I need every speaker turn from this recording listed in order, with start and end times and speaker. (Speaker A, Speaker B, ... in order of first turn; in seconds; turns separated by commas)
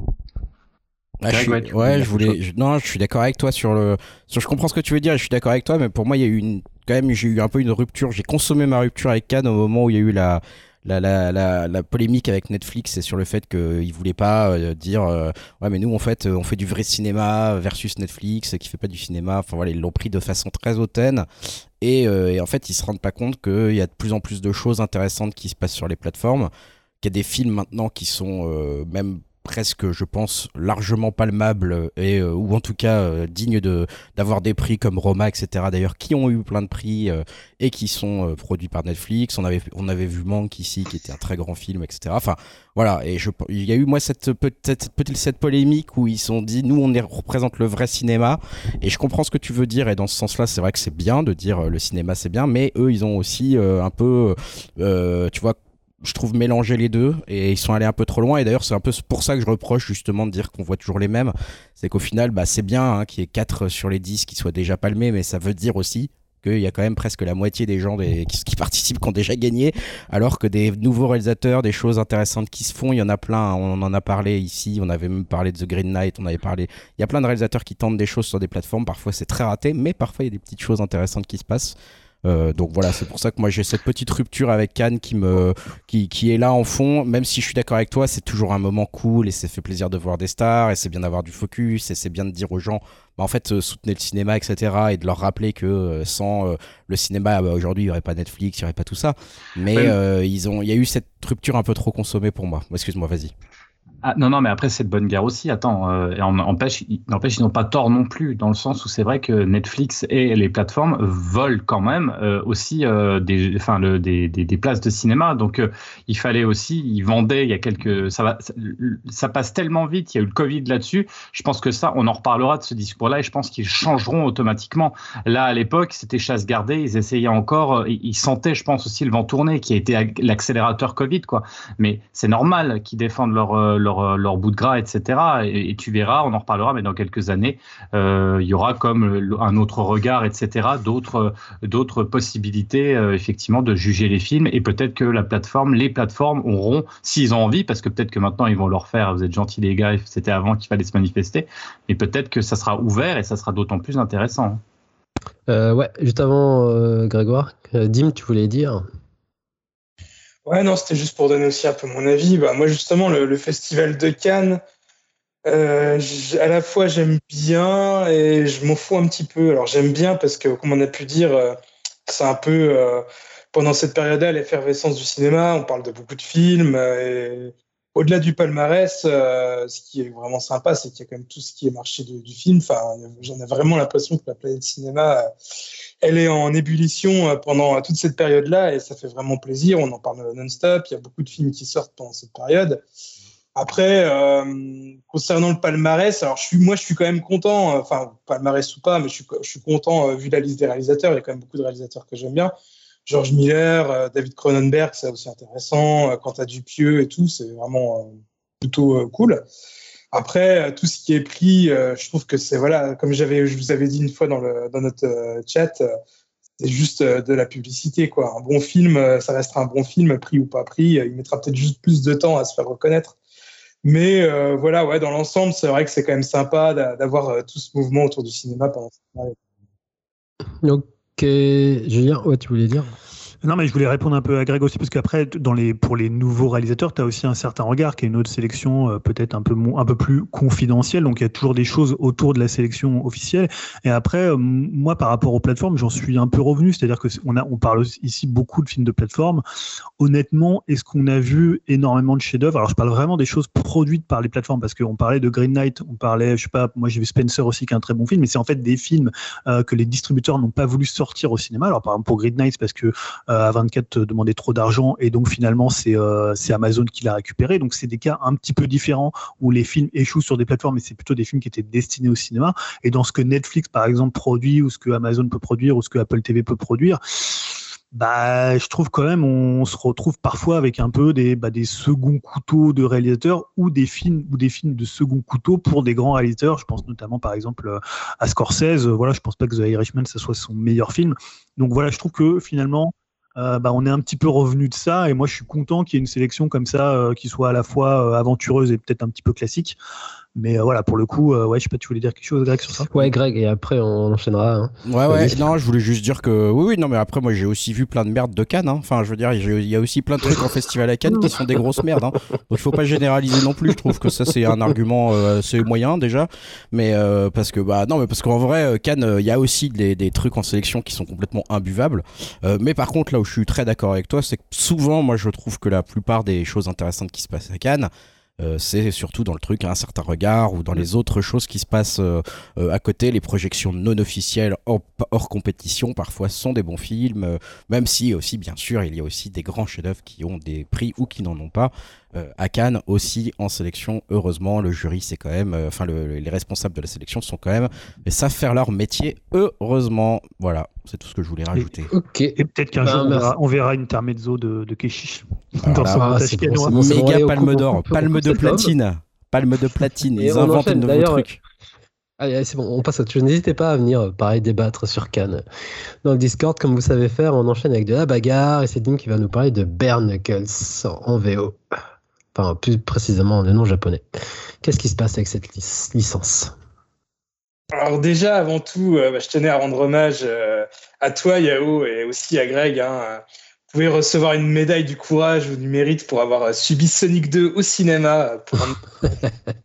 Speaker A: 1.2-21.3, Speaker B: 1.3-2.4, Speaker A: 21.8-26.5, Speaker A: 27.0-81.7, Speaker A: 82.2-103.3, Speaker B: 104.0-154.6, Speaker C: 155.5-158.9, Speaker D: 160.5-164.6, Speaker D: 165.5-185.3, Speaker D: 186.0-192.8, Speaker D: 193.6-202.5, Speaker D: 203.1-209.4, Speaker D: 210.1-215.8, Speaker D: 216.6-223.2, Speaker D: 223.8-229.4, Speaker C: 230.6-233.0, Speaker E: 233.4-249.4, Speaker E: 250.0-299.8, Speaker E: 300.4-303.1, Speaker C: 302.9-305.5, Speaker A: 304.9-351.9, Speaker C: 351.9-353.3, Speaker E: 352.4-356.8, Speaker A: 355.7-356.1, Speaker C: 355.9-358.8, Speaker A: 356.7-361.4, Speaker C: 360.2-361.3, Speaker C: 362.2-365.4, Speaker C: 366.0-371.6, Speaker C: 372.3-374.1, Speaker C: 374.6-376.5, Speaker D: 377.7-388.8